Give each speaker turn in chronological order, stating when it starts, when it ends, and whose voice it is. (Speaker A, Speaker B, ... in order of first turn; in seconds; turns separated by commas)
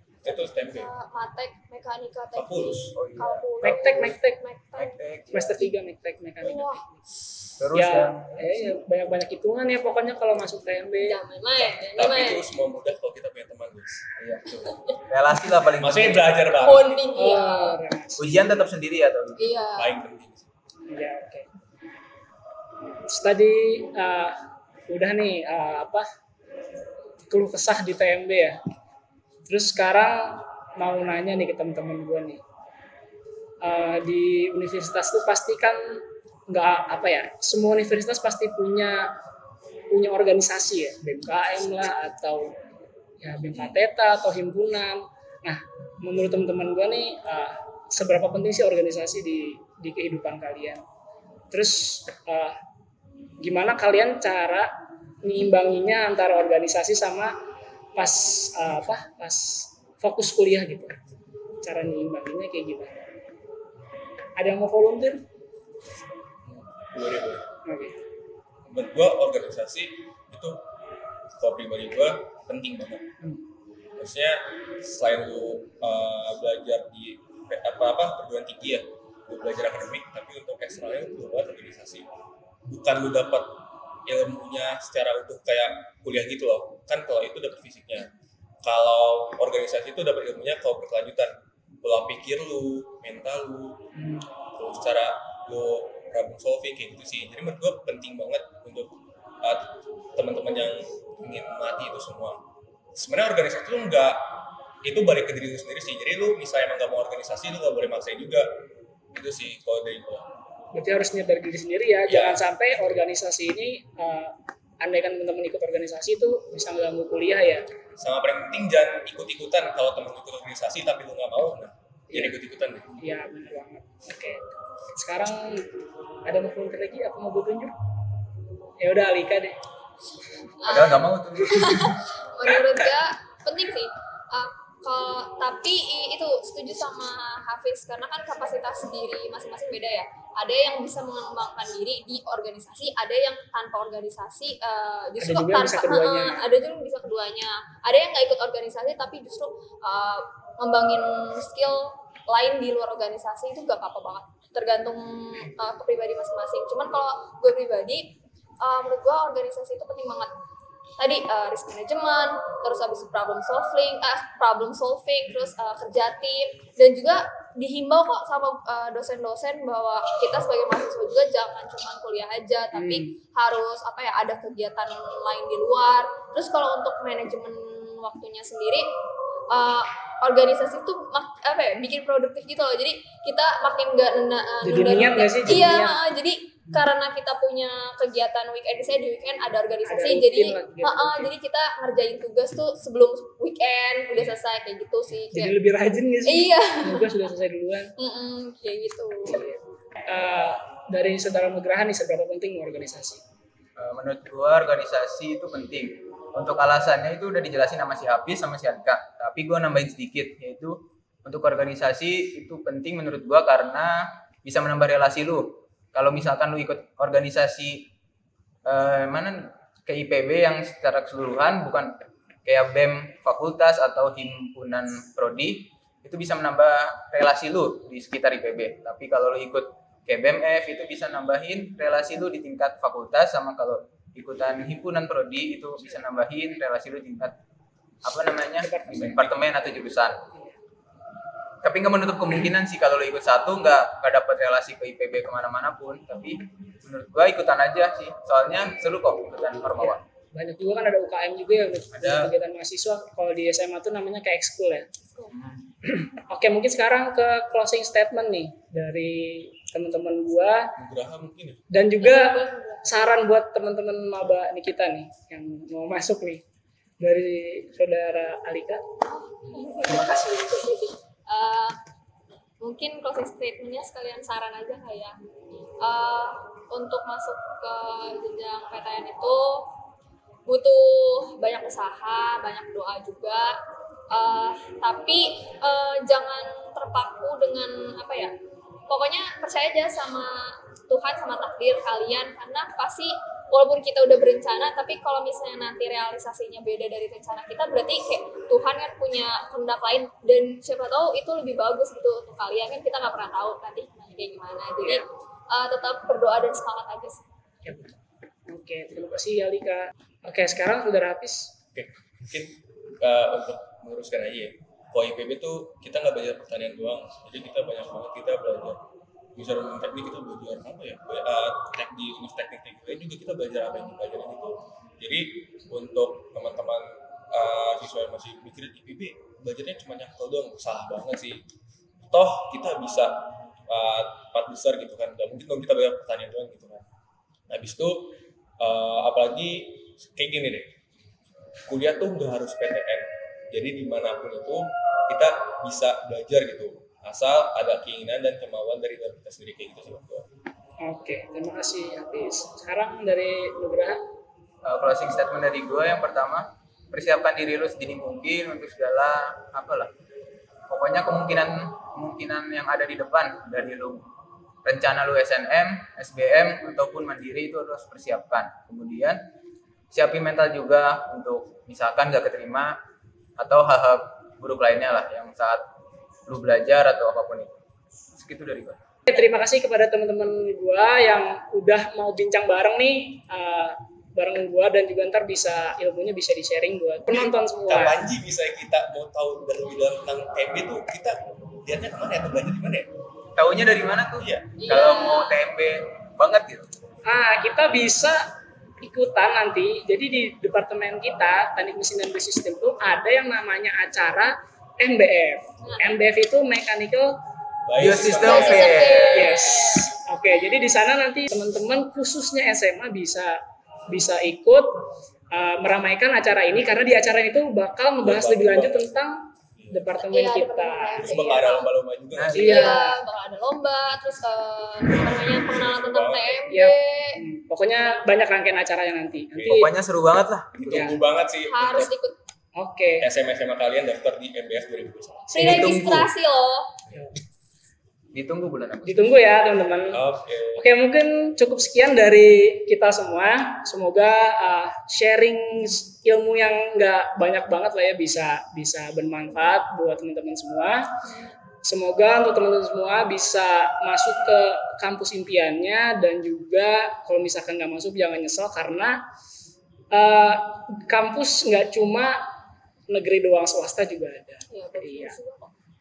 Speaker A: 0.2-0.9, Speaker B: 0.2-5.0, Speaker A: 2.3-3.0, Speaker C: 2.9-4.1, Speaker D: 3.6-4.4, Speaker C: 4.8-5.7, Speaker D: 5.3-6.7, Speaker B: 6.4-6.8, Speaker C: 7.6-8.6, Speaker D: 7.7-11.2, Speaker B: 11.0-12.4, Speaker A: 11.6-14.7, Speaker C: 14.2-16.5, Speaker B: 14.6-14.9, Speaker A: 15.8-17.0, Speaker B: 16.6-17.8, Speaker D: 17.1-18.4, Speaker C: 18.2-19.6, Speaker B: 19.4-20.0, Speaker A: 19.7-20.5, Speaker D: 20.9-21.5, Speaker D: 23.1-24.4, Speaker D: 24.9-26.1, Speaker D: 27.3-28.6, Speaker D: 29.5-32.4, Speaker D: 33.6-39.1, Speaker D: 39.9-42.5, Speaker D: 43.2-50.8, Speaker D: 51.5-52.6, Speaker D: 53.4-57.4, Speaker D: 58.0-61.0, Speaker D: 61.6-63.0, Speaker D: 64.4-65.2, Speaker A: 66.4-67.5, Speaker D: 67.6-68.0, Speaker A: 68.7-70.6, Speaker A: 71.4-73.1, Speaker A: 74.0-82.0, Speaker A: 82.7-88.1, Speaker A: 88.6-93.8, Speaker D: 94.0-94.3, Speaker A: 94.5-102.4, Speaker A: 102.9-104.3, Speaker A: 104.8-108.5, Speaker A: 109.1-110.3, Speaker D: 110.7-117.7, Speaker A: 112.1-112.4, Speaker A: 118.0-122.9, Speaker D: 122.1-122.4, Speaker D: 123.0-125.7, Speaker D: 126.2-127.8, Speaker D: 128.8-129.6, Speaker B: 130.6-160.3, Speaker C: 130.7-132.0, Speaker D: 145.2-146.4, Speaker B: 161.0-178.9, Speaker D: 172.7-173.1, Speaker B: 179.5-195.5, Speaker D: 184.6-186.0, Speaker D: 189.8-191.3, Speaker D: 195.3-197.9, Speaker B: 196.2-197.1, Speaker B: 198.0-199.4, Speaker D: 199.3-203.2, Speaker C: 203.8-217.9, Speaker C: 218.6-237.3, Speaker C: 238.0-240.2, Speaker D: 238.6-239.4, Speaker C: 241.6-250.0, Speaker D: 249.8-254.9, Speaker C: 251.9-252.3, Speaker C: 255.3-255.6, Speaker D: 255.8-260.7, Speaker A: 260.8-261.6, Speaker D: 261.7-266.4, Speaker B: 262.0-262.9, Speaker D: 267.0-268.8, Speaker B: 269.1-271.8, Speaker B: 272.6-275.2, Speaker B: 275.8-279.7, Speaker B: 280.4-283.6, Speaker B: 284.1-288.3, Speaker B: 288.9-307.2, Speaker D: 307.6-307.9, Speaker D: 308.5-311.6, Speaker A: 311.7-318.8, Speaker A: 319.3-331.4, Speaker A: 332.1-336.8, Speaker A: 337.5-340.7, Speaker A: 341.7-350.2, Speaker D: 350.8-354.0, Speaker C: 354.6-359.9, Speaker C: 360.7-364.0, Speaker C: 364.6-369.2, Speaker C: 369.9-372.8, Speaker C: 373.4-375.6, Speaker C: 376.3-377.5, Speaker C: 378.1-378.8, Speaker D: 379.1-388.0, Speaker A: 387.1-392.9, Speaker C: 393.4-396.7, Speaker A: 394.2-394.5, Speaker B: 394.6-395.4, Speaker D: 397.1-398.3, Speaker D: 398.8-407.1, Speaker B: 405.6-406.0, Speaker A: 407.6-409.1, Speaker C: 407.8-409.3, Speaker B: 408.1-409.9, Speaker D: 409.1-414.8, Speaker D: 415.3-421.1, Speaker A: 418.0-418.9, Speaker A: 419.6-419.9, Speaker B: 420.0-421.7, Speaker A: 421.0-422.8, Speaker C: 422.1-422.6, Speaker D: 422.3-423.0, Speaker B: 422.4-427.2, Speaker A: 424.9-426.4, Speaker D: 426.5-429.7, Speaker A: 429.3-429.7, Speaker C: 429.4-431.0, Speaker A: 430.6-431.9, Speaker D: 430.7-431.0, Speaker B: 431.5-432.2, Speaker D: 432.6-433.1, Speaker A: 433.0-435.8, Speaker B: 435.3-436.7, Speaker C: 435.3-436.1, Speaker D: 435.4-435.7, Speaker C: 438.1-439.1, Speaker D: 438.8-440.0, Speaker A: 439.9-440.6, Speaker D: 440.6-450.9, Speaker D: 451.6-459.0, Speaker D: 459.9-462.3, Speaker D: 462.9-465.2, Speaker B: 464.5-465.5